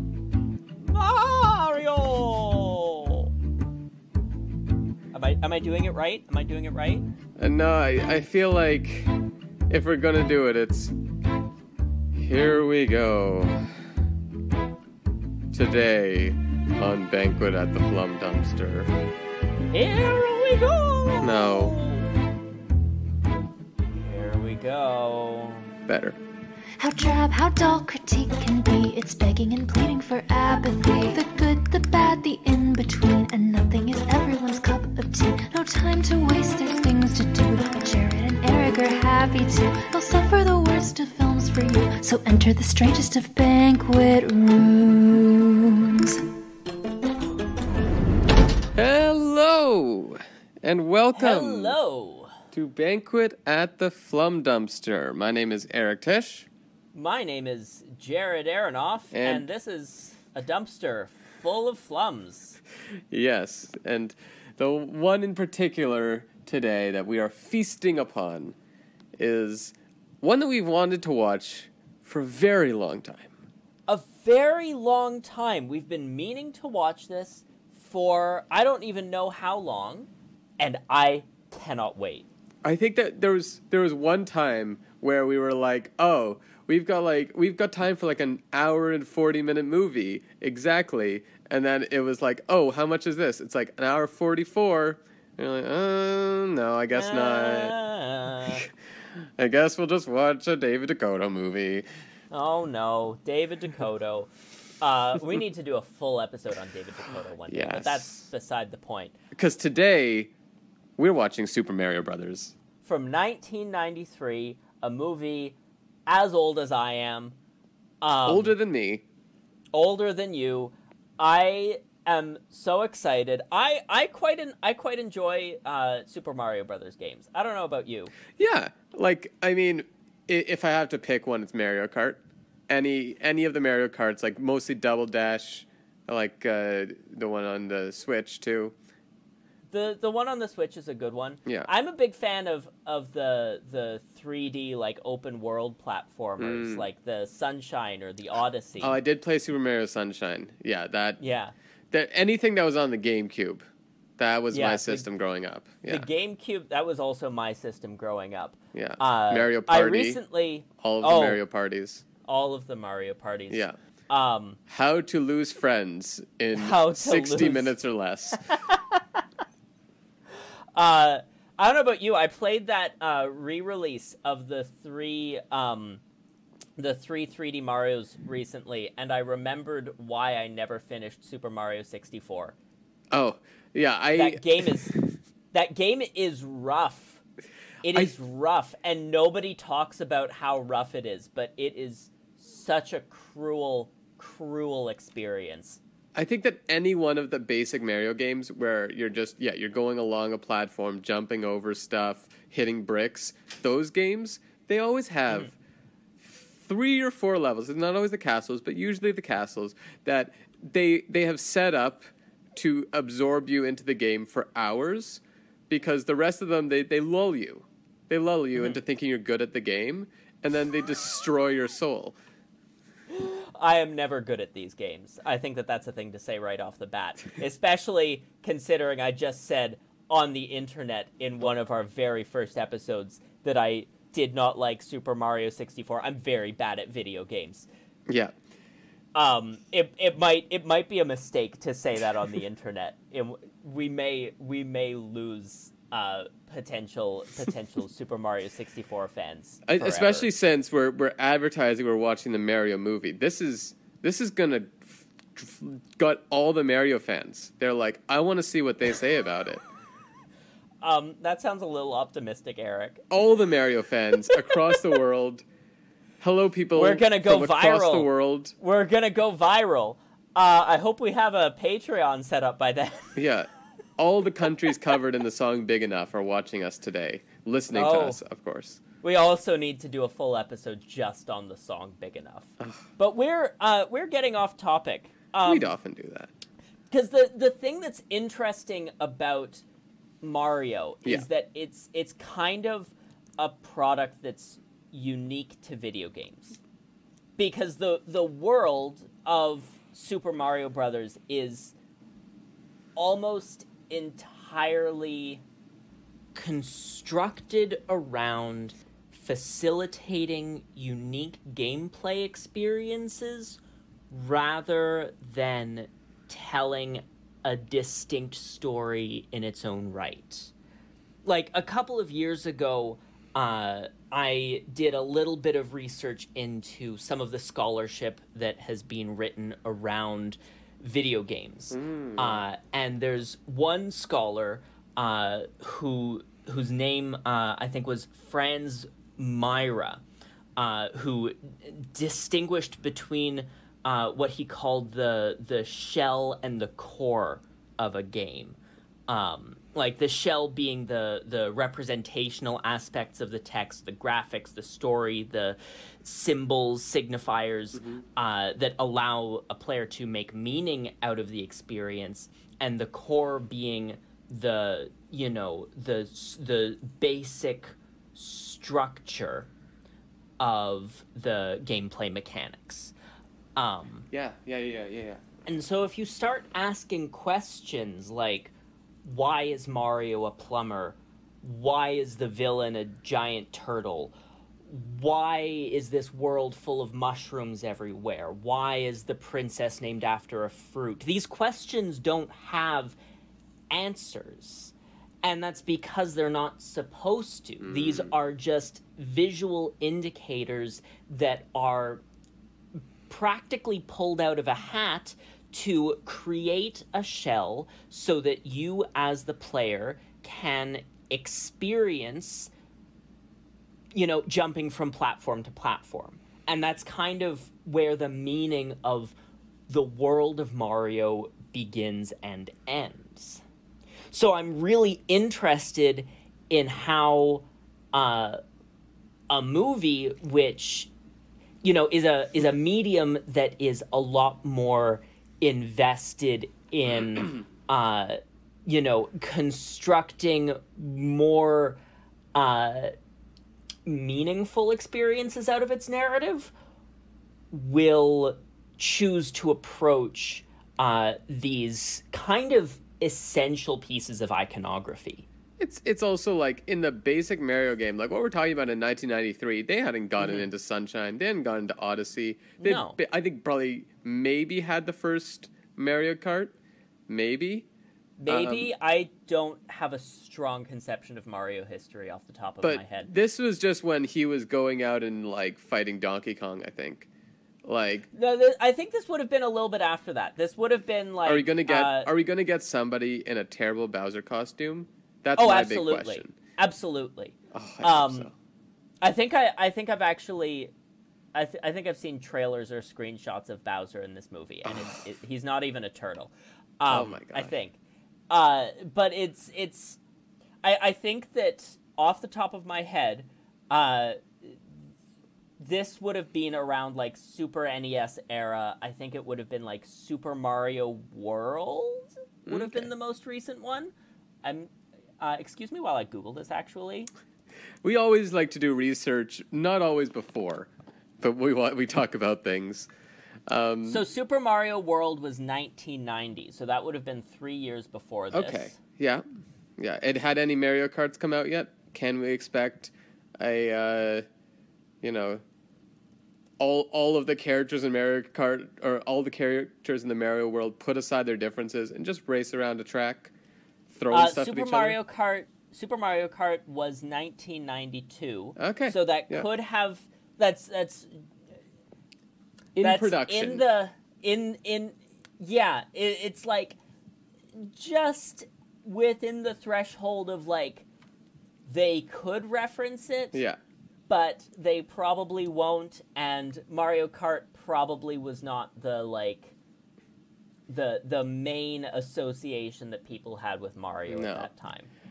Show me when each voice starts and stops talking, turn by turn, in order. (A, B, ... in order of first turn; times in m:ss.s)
0:00.8-0:03.3 A
0:05.1-0:07.0 A
0:07.4-0:09.2 B
0:09.7-0:10.9 B
0:12.1-0:13.7 B
0:15.5-0:18.9 B
0:19.7-0:22.1 A
0:21.2-0:21.8 B
0:23.9-0:25.7 A
0:25.9-0:26.2 B
0:26.8-0:46.2 C
0:48.7-0:51.8 B
0:51.1-0:52.4 A
0:52.5-0:56.5 B
0:56.9-1:02.6 A
0:59.1-0:59.5 B
1:03.1-1:08.6 B
1:09.2-1:13.3 B
1:13.9-1:22.3 A
1:22.6-1:37.7 B
1:36.9-1:38.6 A
1:38.4-1:41.8 B
1:42.3-1:44.3 A
1:44.8-1:49.1 A
1:47.5-1:48.2 B
1:49.3-1:50.3 B
1:51.0-1:52.5 B
1:52.8-1:55.6 A
1:56.1-1:57.4 A
1:58.0-1:58.5 A
1:58.2-1:59.0 B
1:59.7-2:08.1 A
2:08.3-2:18.7 B
2:19.7-2:29.0 A
2:26.4-2:26.9 B
2:28.8-2:31.2 B
2:31.2-2:31.5 A
2:31.9-2:33.6 B
2:34.2-2:36.0 B
2:34.5-2:35.1 A
2:35.9-2:41.4 A
2:38.7-2:40.2 B
2:40.8-2:42.0 B
2:42.2-2:44.6 A
2:43.5-2:43.7 B
2:44.7-2:48.5 B
2:46.5-2:47.7 A
2:48.4-2:49.0 A
2:50.7-2:56.0 A
2:56.8-3:02.5 A
3:03.1-3:05.0 B
3:04.1-3:04.9 A
3:05.5-3:07.2 A
3:07.8-3:15.8 A
3:16.1-3:25.5 B
3:26.2-3:42.2 B
3:43.1-3:57.7 A
3:58.1-3:58.3 B
3:59.1-4:10.3 A
4:09.6-4:19.6 B
4:20.8-4:23.0 A
4:23.1-4:25.4 B
4:26.2-4:28.5 B
4:26.8-4:33.2 A
4:33.1-4:38.8 B
4:37.7-4:38.2 A
4:39.0-4:45.7 A
4:45.4-4:46.3 B
4:46.9-4:49.6 A
4:50.2-4:56.6 A
4:57.4-5:01.7 A
5:03.0-5:05.4 A
5:06.3-5:13.6 A
5:14.1-5:20.5 A
5:21.2-5:40.0 A
5:31.7-5:32.4 B
5:40.6-5:48.6 A
5:49.1-6:09.5 A
6:10.4-6:12.9 A
6:13.6-6:14.1 A
6:14.1-6:15.2 B
6:15.4-6:18.5 A
6:19.0-6:24.1 A
6:24.6-6:33.0 A
6:33.7-6:42.0 A
6:37.6-6:38.1 B
6:43.1-6:52.5 A
6:53.9-6:59.1 A
6:59.7-7:03.4 A
7:04.1-7:08.4 A
7:09.3-7:10.9 A
7:11.6-7:21.8 A
7:22.3-7:22.9 A
7:23.8-7:26.5 A
7:27.5-7:35.3 A
7:35.6-7:46.5 B
7:42.6-7:43.0 A
7:47.1-7:47.7 B
7:48.2-7:53.1 A
7:48.3-7:48.7 B
7:52.6-7:57.1 B
7:57.6-7:58.1 B
7:58.1-8:02.1 A
8:01.2-8:06.3 B
8:05.4-8:08.3 A
8:07.5-8:08.3 B
8:09.0-8:10.7 A
8:11.3-8:17.8 A
8:14.6-8:15.0 B
8:16.9-8:17.5 B
8:18.3-8:20.0 A
8:20.6-8:24.6 A
8:25.6-8:33.9 A
8:32.4-8:32.9 B
8:34.4-8:37.1 A
8:37.8-8:42.9 B
8:43.5-8:44.0 B
8:43.8-8:48.7 A
8:48.3-8:49.2 B
8:49.8-8:54.2 B
8:55.0-8:55.4 B
8:56.6-9:03.3 B
9:03.9-9:05.0 B
9:04.1-9:11.1 A
9:08.6-9:09.5 B
9:12.7-9:13.6 B
9:12.8-9:16.8 A
9:17.6-9:20.8 A
9:21.6-9:23.4 A
9:24.1-9:29.5 A
9:30.7-9:34.9 A
9:34.1-9:34.5 B